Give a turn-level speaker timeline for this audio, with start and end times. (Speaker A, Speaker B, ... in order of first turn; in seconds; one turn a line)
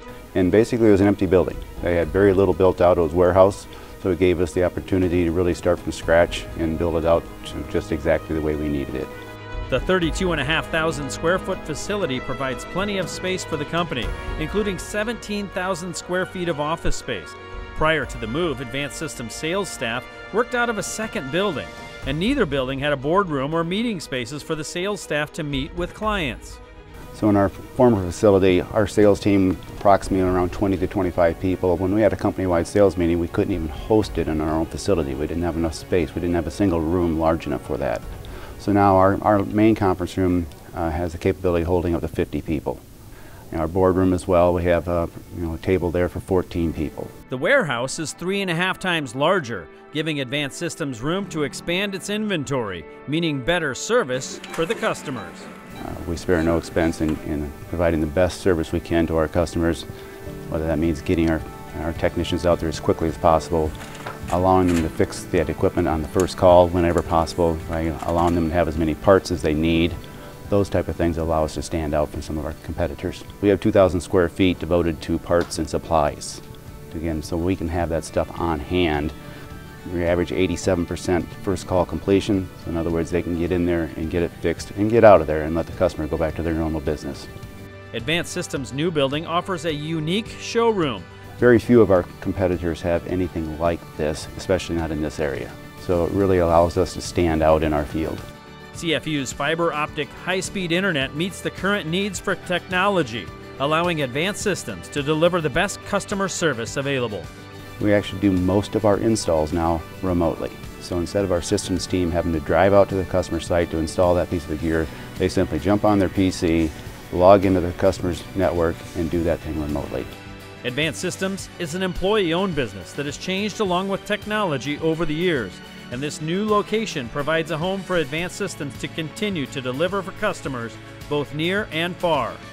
Speaker A: 0.3-9.1
Speaker B: 9.7-26.6
Speaker A: 27.1-38.0
Speaker A: 38.6-42.8
Speaker A: 43.5-47.1
Speaker B: 47.3-55.5
Speaker A: 55.8-59.9
Speaker A: 60.5-63.7
Speaker A: 64.3-70.0
Speaker A: 70.5-79.1
Speaker A: 79.9-87.3
Speaker B: 87.9-91.0
Speaker A: 91.4-98.2
Speaker B: 98.7-107.3
Speaker A: 107.8-120.1
Speaker B: 120.6-132.4